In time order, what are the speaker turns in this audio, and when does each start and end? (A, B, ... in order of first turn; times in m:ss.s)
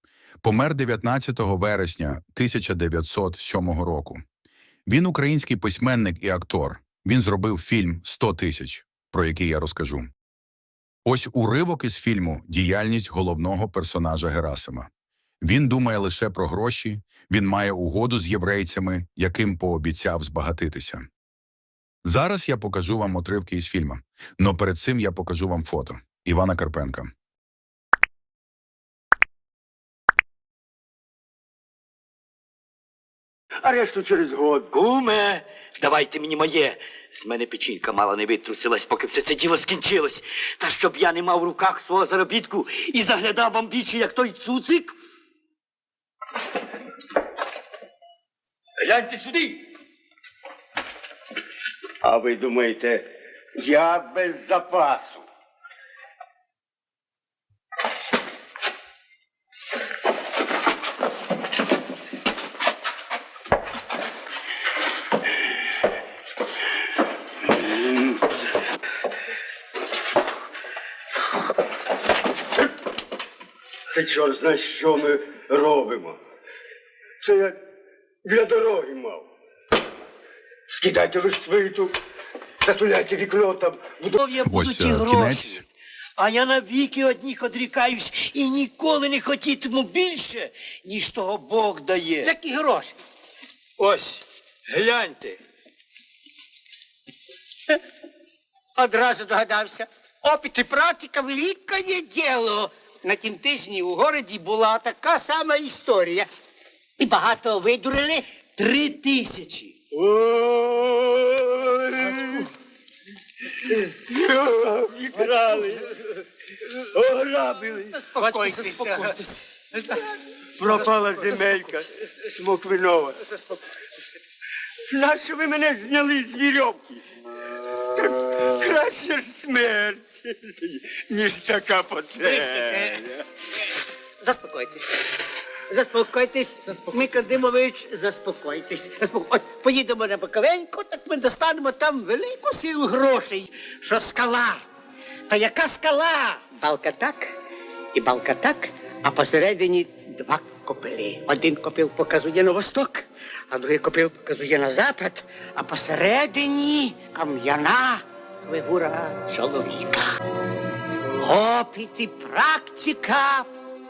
0:00.4-0:04.2 A
0:04.9-0:10.1 A
0:11.0-0:14.9 A
0:15.4-0:21.0 A
0:22.0-0:27.1 A
0:33.6-0:34.7 B
0:34.7-0:45.0 C
0:48.8-0:49.5 B
0:49.0-0:49.3 C
0:52.0-0:55.3 B
1:13.9-1:16.2 B
1:17.2-1:17.6 B
1:18.2-1:19.2 B
1:20.7-1:22.0 B
1:22.6-1:24.2 B
1:24.2-1:25.6 C
1:24.4-1:25.6 A
1:26.2-1:32.3 C
1:32.2-1:32.9 D
1:33.8-1:34.2 C
1:34.7-1:35.4 C
1:38.8-1:46.3 D
1:47.0-1:48.3 D
1:48.6-1:49.7 C
1:49.9-1:52.5 B
1:53.7-1:56.0 B
1:56.8-1:58.6 B
1:58.2-1:59.4 C
2:00.6-2:03.3 B
2:04.9-2:07.0 B
2:07.9-2:13.2 B
2:12.2-2:13.1 D
2:14.2-2:15.2 D
2:15.7-2:24.6 D
2:25.3-2:27.3 D
2:27.9-2:40.1 D
2:41.2-2:43.5 D